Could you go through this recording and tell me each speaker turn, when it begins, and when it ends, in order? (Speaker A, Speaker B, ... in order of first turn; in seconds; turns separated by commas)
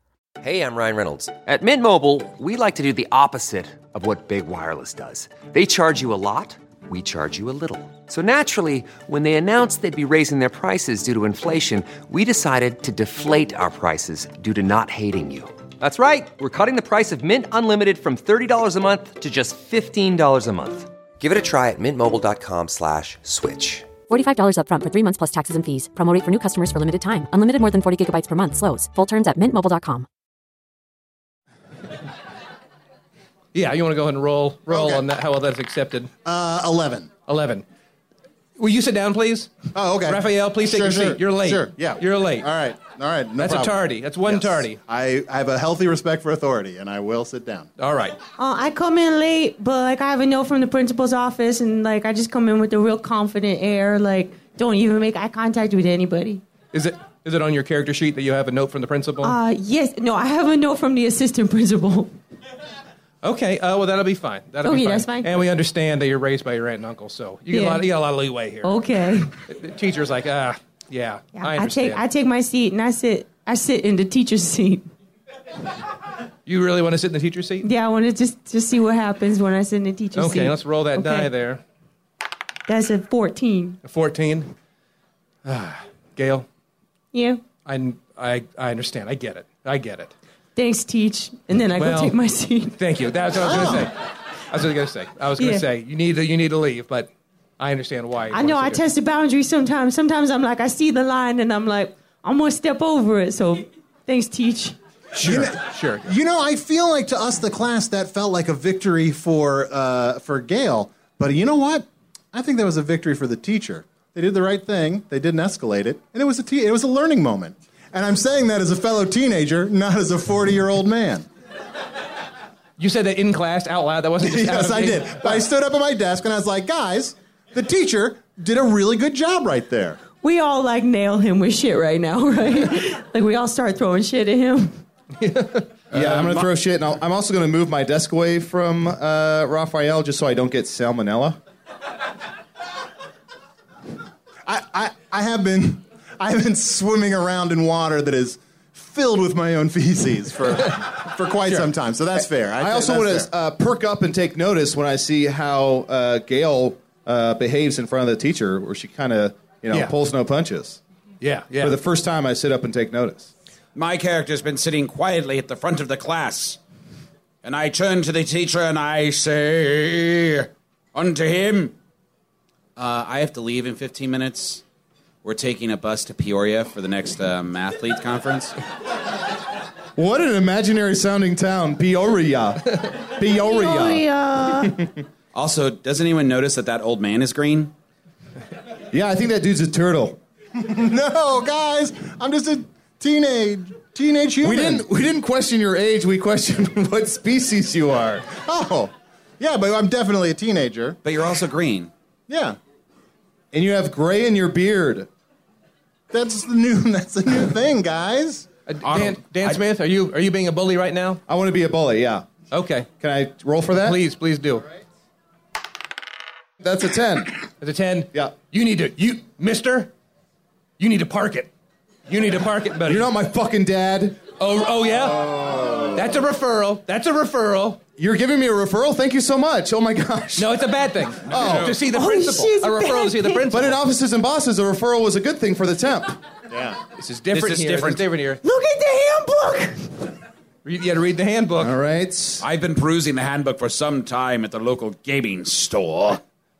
Speaker A: 0.4-23.9, Speaker B: 24.1-30.1, Speaker C: 33.5-36.1, Speaker D: 34.7-35.1, Speaker D: 36.2-37.1, Speaker C: 37.3-37.6, Speaker C: 38.6-42.5, Speaker D: 39.7-47.7, Speaker C: 43.4-44.8, Speaker C: 47.8-48.2, Speaker E: 48.4-56.4, Speaker C: 56.7-59.4, Speaker E: 59.2-62.1, Speaker C: 63.2-68.8, Speaker E: 64.6-65.4, Speaker E: 67.5-67.9, Speaker E: 68.6-69.4, Speaker C: 69.4-72.0, Speaker E: 71.4-74.9, Speaker C: 76.5-77.7, Speaker E: 77.6-81.3, Speaker C: 80.2-81.6, Speaker E: 82.7-83.8, Speaker C: 83.8-84.5, Speaker C: 85.5-86.5, Speaker E: 87.1-87.4, Speaker C: 87.7-90.1, Speaker E: 90.6-92.8, Speaker C: 91.8-92.2, Speaker C: 92.7-98.8, Speaker D: 93.4-93.9, Speaker E: 95.4-95.7, Speaker E: 98.3-104.8, Speaker C: 105.1-106.1, Speaker D: 105.2-121.3, Speaker C: 122.8-125.4, Speaker D: 124.2-130.0, Speaker E: 130.2-134.8, Speaker C: 135.2-136.5, Speaker F: 135.9-141.4, Speaker D: 144.4-153.3, Speaker F: 152.6-160.8, Speaker C: 161.2-161.8, Speaker F: 161.6-163.3, Speaker G: 163.8-166.6, Speaker G: 167.4-171.7, Speaker G: 172.8-174.6, Speaker G: 175.2-178.6, Speaker F: 180.0-184.9, Speaker E: 183.2-184.8, Speaker G: 185.3-187.7, Speaker F: 188.9-190.2, Speaker D: 190.6-194.8, Speaker F: 194.4-198.4, Speaker D: 198.4-201.0, Speaker G: 201.0-201.9, Speaker D: 202.3-202.6, Speaker F: 203.5-205.1, Speaker D: 206.1-208.5, Speaker C: 208.7-211.2, Speaker G: 208.8-209.6, Speaker F: 211.3-212.3, Speaker C: 212.5-212.9, Speaker F: 213.0-214.0, Speaker C: 213.8-214.7, Speaker F: 216.6-217.4, Speaker C: 217.6-219.9, Speaker C: 220.8-221.5, Speaker C: 222.1-223.1, Speaker F: 222.9-224.2, Speaker C: 224.4-225.3, Speaker F: 225.1-226.0, Speaker C: 225.9-227.8, Speaker F: 228.0-230.5, Speaker C: 230.4-233.8, Speaker G: 231.3-231.8, Speaker F: 231.3-231.8, Speaker E: 231.8-233.5, Speaker F: 233.5-236.2, Speaker D: 236.5-236.8, Speaker C: 237.0-238.4, Speaker G: 237.3-238.1, Speaker E: 238.4-240.2, Speaker C: 240.7-241.7, Speaker F: 241.6-242.4, Speaker G: 242.4-246.2